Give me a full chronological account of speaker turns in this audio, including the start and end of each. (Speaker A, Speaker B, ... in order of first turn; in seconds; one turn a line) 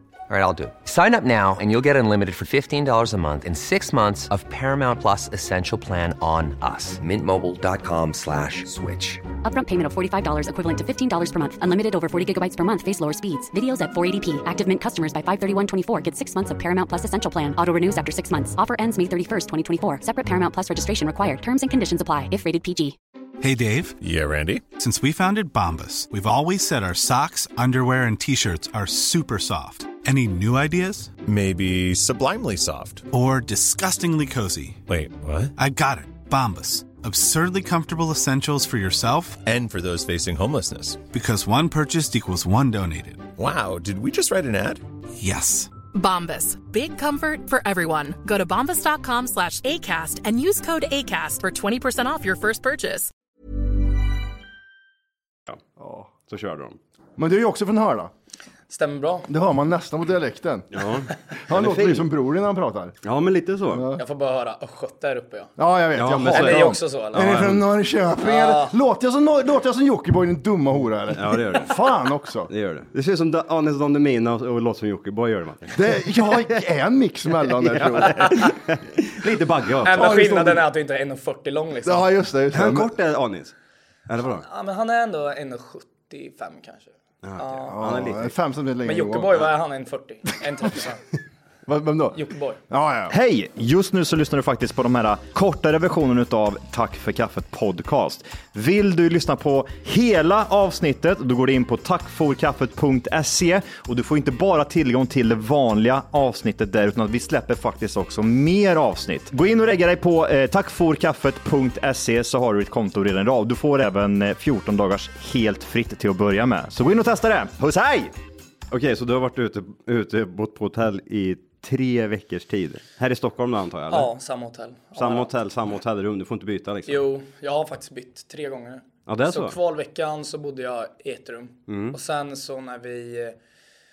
Speaker A: 0.3-9.2
Speaker B: 9.4-22.9
Speaker C: 23.4-23.9
Speaker D: 24.0-24.6
Speaker C: 24.8-31.1
Speaker D: 31.2-33.0
Speaker C: 33.1-34.8
Speaker D: 34.9-35.5
Speaker C: 35.5-39.4
Speaker D: 39.4-41.0
Speaker C: 41.1-43.3
Speaker D: 43.4-44.8
Speaker C: 45.2-45.7
Speaker E: 45.9-53.1
Speaker F: 55.8-56.1
Speaker G: 56.2-56.8
Speaker F: 57.2-58.1
Speaker H: 58.7-59.3
Speaker F: 59.3-63.0
Speaker G: 60.7-62.1
Speaker G: 63.0-63.9
Speaker F: 63.7-64.0
Speaker H: 64.0-65.5
Speaker F: 65.6-72.5
Speaker G: 65.9-67.7
Speaker H: 66.2-67.4
Speaker H: 68.2-68.7
Speaker G: 71.1-71.8
Speaker G: 72.5-76.6
Speaker F: 75.7-78.5
Speaker G: 77.4-80.0
Speaker H: 79.8-82.1
Speaker F: 79.9-80.6
Speaker F: 81.8-82.9
Speaker G: 82.5-83.5
Speaker G: 84.1-84.4
Speaker H: 84.2-87.8
Speaker G: 87.2-88.3
Speaker F: 87.7-89.5
Speaker H: 88.8-91.0
Speaker F: 91.7-93.1
Speaker H: 92.1-92.6
Speaker I: 93.1-118.1
Speaker G: 118.7-124.1
Speaker H: 123.9-125.3
Speaker G: 125.0-127.0
Speaker H: 126.9-133.3
Speaker G: 129.1-129.6
Speaker G: 131.7-132.0